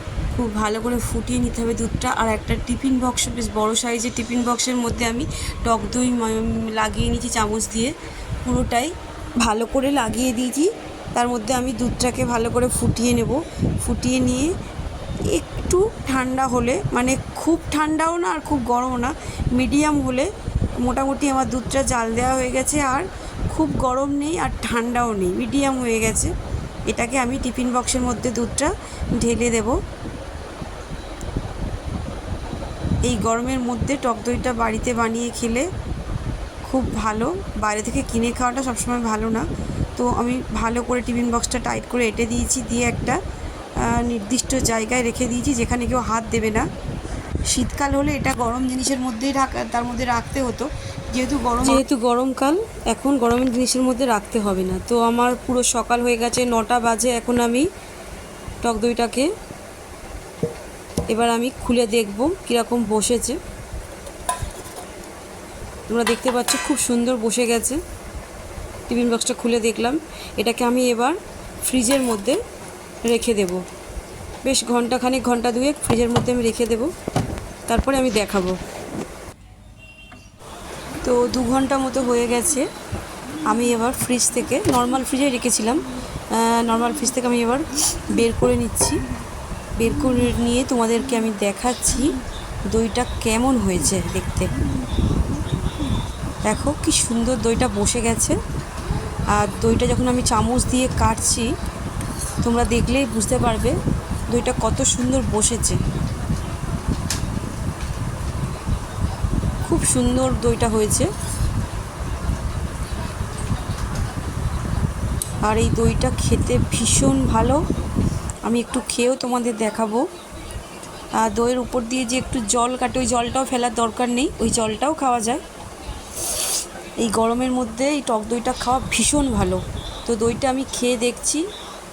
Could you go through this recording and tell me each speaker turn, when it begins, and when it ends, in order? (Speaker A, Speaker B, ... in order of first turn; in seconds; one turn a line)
Speaker A: 0.3-7.9
Speaker A: 8.4-14.5
Speaker A: 15.3-26.3
Speaker A: 26.9-29.8
Speaker A: 33.1-35.7
Speaker A: 36.6-39.5
Speaker A: 40.0-43.2
Speaker A: 43.8-46.7
Speaker A: 47.5-57.7
Speaker A: 58.6-59.3
Speaker A: 61.1-63.4
Speaker A: 65.9-67.8
Speaker A: 68.9-72.4
Speaker A: 73.0-73.6
Speaker A: 74.5-76.9
Speaker A: 77.7-78.6
Speaker A: 81.0-82.7
Speaker A: 83.5-89.0
Speaker A: 89.8-92.2
Speaker A: 92.7-94.5
Speaker A: 96.5-98.4
Speaker A: 99.3-101.5
Speaker A: 102.4-103.8
Speaker A: 104.3-105.8
Speaker A: 109.7-111.1
Speaker A: 115.4-117.6
Speaker A: 118.5-120.1
Speaker A: 121.2-125.4
Speaker A: 127.0-131.5